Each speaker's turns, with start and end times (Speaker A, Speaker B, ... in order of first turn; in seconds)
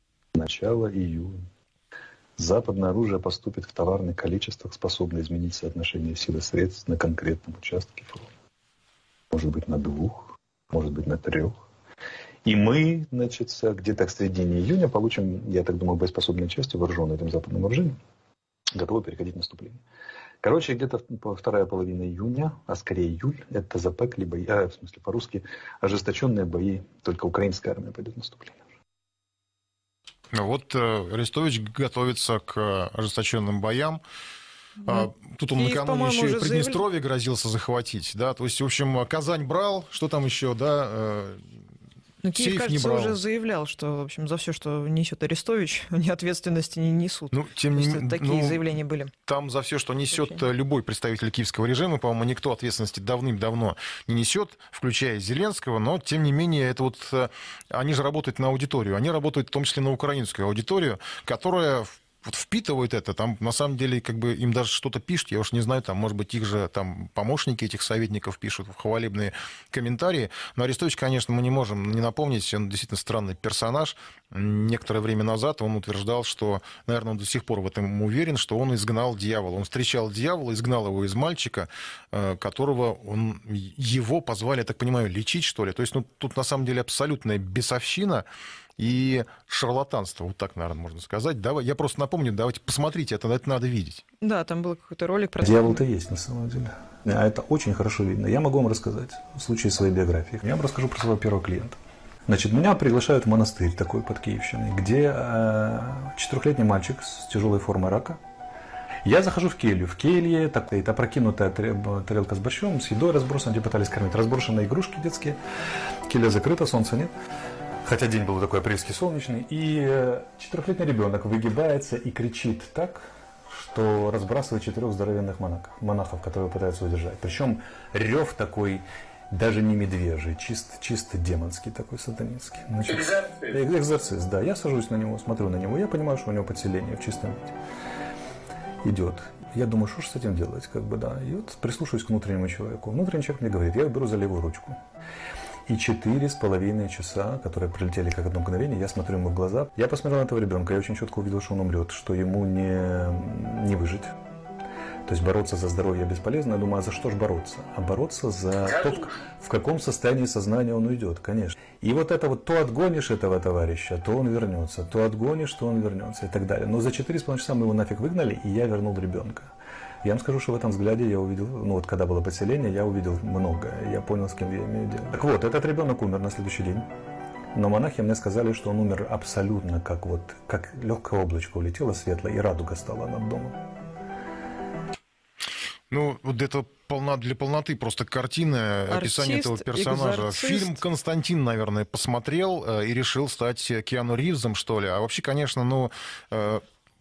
Speaker A: 0.3-1.4, 2.4-8.3, 9.3-11.7, 12.4-18.0, 18.7-19.8, 20.4-28.6, 95.4-108.2, 109.0-115.4, 116.1-117.1, 117.8-137.5, 138.8-144.8, 145.7-154.2, 155.1-176.9, 177.5-183.6
Speaker B: 30.3-34.0, 34.9-41.5, 42.3-43.2, 47.3-48.6, 49.2-88.3, 88.8-94.0, 185.9-196.6
Speaker C: 34.8-36.8, 42.2-49.1, 50.1-50.4, 94.2-95.8, 188.9-190.8